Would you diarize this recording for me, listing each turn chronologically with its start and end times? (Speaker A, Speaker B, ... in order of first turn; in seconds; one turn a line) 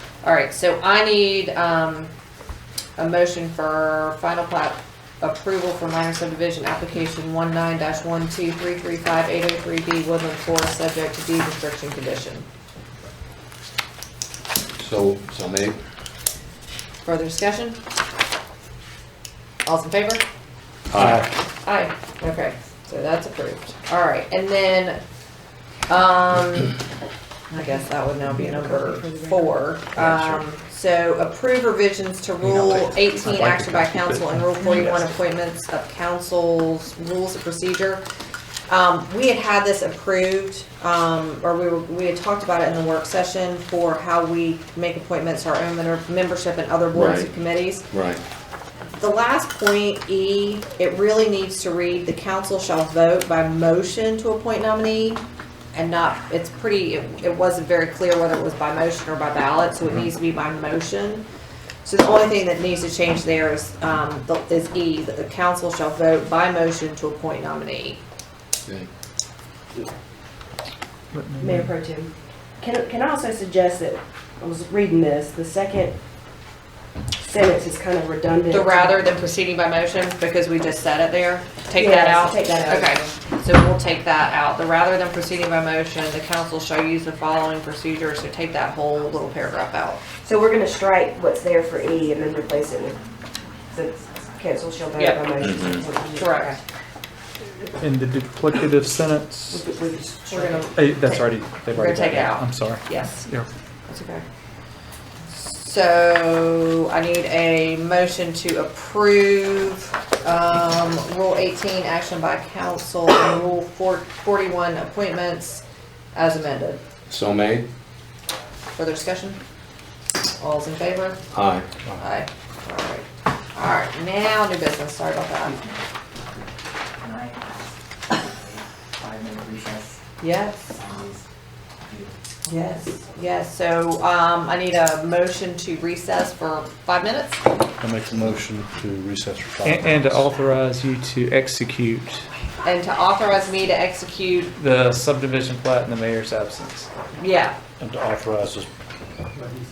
Speaker A: 0.2-2.1
Speaker A: 3.0-12.4
Speaker B: 14.8-15.8
Speaker A: 17.0-17.8
Speaker A: 19.6-20.2
Speaker B: 20.9-21.2
Speaker A: 21.6-25.0
Speaker A: 25.9-26.8
Speaker A: 27.5-38.0
Speaker C: 28.2-29.6
Speaker D: 32.4-34.9
Speaker A: 38.7-47.9
Speaker B: 46.9-47.3
Speaker B: 47.9-48.2
Speaker A: 48.9-55.2
Speaker A: 55.7-61.2
Speaker A: 61.8-68.0
Speaker D: 71.1-71.7
Speaker C: 71.4-76.0
Speaker C: 77.2-79.0
Speaker A: 78.5-90.0
Speaker C: 81.8-83.1
Speaker C: 90.2-93.0
Speaker C: 93.7-96.6
Speaker B: 95.4-95.8
Speaker A: 96.2-96.6
Speaker D: 97.8-99.6
Speaker C: 99.5-100.7
Speaker A: 100.3-103.2
Speaker D: 100.7-103.5
Speaker A: 103.9-104.2
Speaker A: 105.3-115.6
Speaker A: 116.1-116.8
Speaker B: 117.1-117.7
Speaker A: 118.7-119.4
Speaker A: 120.4-121.2
Speaker B: 121.3-121.7
Speaker A: 122.0-125.6
Speaker E: 125.5-125.8
Speaker E: 127.0-130.0
Speaker A: 130.2-130.8
Speaker E: 130.7-131.2
Speaker E: 131.8-132.2
Speaker A: 132.4-137.4
Speaker F: 137.8-140.2
Speaker D: 139.6-142.3
Speaker A: 142.6-144.5
Speaker D: 144.6-146.9
Speaker A: 147.2-147.5
Speaker F: 147.8-148.7